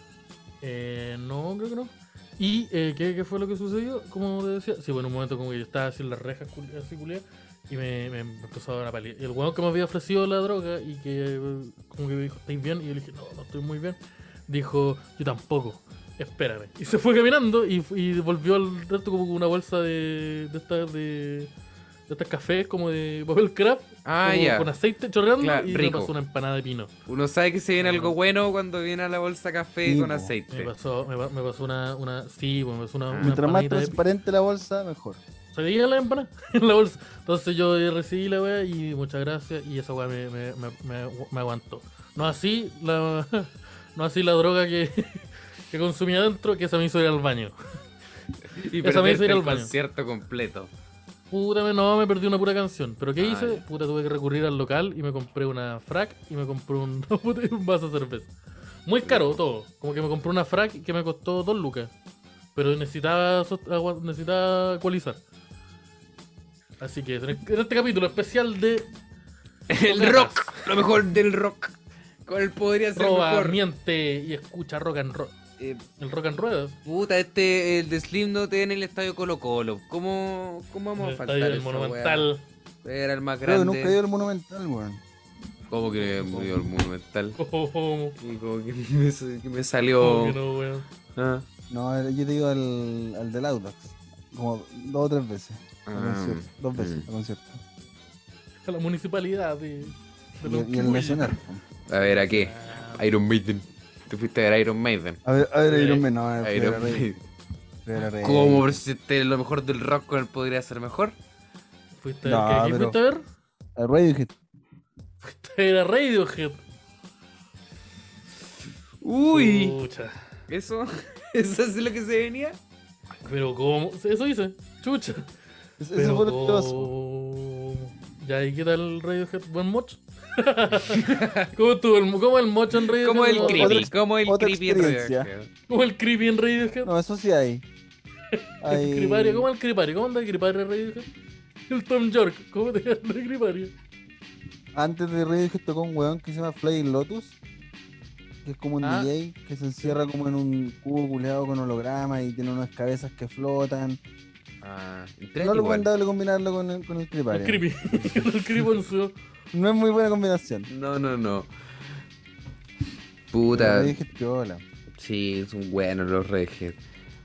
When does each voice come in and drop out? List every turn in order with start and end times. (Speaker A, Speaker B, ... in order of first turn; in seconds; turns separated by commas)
Speaker A: 0.6-21.5, Speaker A: 22.1-26.9, Speaker B: 24.0-24.7, Speaker B: 25.4-26.1, Speaker B: 27.1-30.7, Speaker A: 27.8-28.1, Speaker C: 29.8-30.3, Speaker A: 30.5-34.0, Speaker C: 33.2-35.2, Speaker A: 35.5-47.5, Speaker B: 48.5-50.7, Speaker A: 48.8-49.7, Speaker A: 51.3-58.3, Speaker B: 53.2-53.6, Speaker A: 58.9-61.9, Speaker B: 59.0-59.4, Speaker A: 62.5-65.2, Speaker A: 66.8-68.9, Speaker B: 69.7-73.6, Speaker A: 69.8-70.7, Speaker A: 73.0-75.3, Speaker A: 76.0-76.8, Speaker B: 76.8-82.3, Speaker A: 81.0-82.4, Speaker B: 82.8-84.0, Speaker C: 83.4-85.0, Speaker B: 85.7-87.4, Speaker C: 86.2-86.5, Speaker A: 87.4-88.2, Speaker B: 88.2-90.4, Speaker A: 90.0-90.9, Speaker B: 91.2-91.5, Speaker C: 91.7-97.6, Speaker B: 95.8-97.1, Speaker A: 98.7-101.3, Speaker C: 100.4-101.6, Speaker B: 101.9-105.2, Speaker A: 102.0-103.0, Speaker C: 105.2-107.1, Speaker A: 105.7-106.0, Speaker B: 106.4-107.2, Speaker C: 107.8-108.8, Speaker B: 108.2-111.2, Speaker A: 112.0-113.2, Speaker C: 112.2-113.0, Speaker C: 113.8-114.3, Speaker A: 115.2-116.6, Speaker B: 119.0-119.8, Speaker A: 119.3-120.2, Speaker B: 120.5-122.6, Speaker A: 123.2-125.3, Speaker C: 125.8-126.9, Speaker A: 125.9-133.9, Speaker B: 130.9-131.5, Speaker B: 132.9-135.5, Speaker C: 133.4-135.3, Speaker A: 135.7-136.9, Speaker C: 136.8-137.6, Speaker A: 138.3-141.1, Speaker C: 138.6-139.5, Speaker A: 141.7-143.7, Speaker C: 144.7-147.3, Speaker C: 148.4-154.0, Speaker A: 148.8-149.1, Speaker B: 154.6-155.9, Speaker C: 155.4-157.6, Speaker A: 157.3-159.1, Speaker C: 159.5-160.7, Speaker B: 160.7-161.5, Speaker B: 163.3-164.0, Speaker C: 163.5-164.6, Speaker B: 164.9-166.8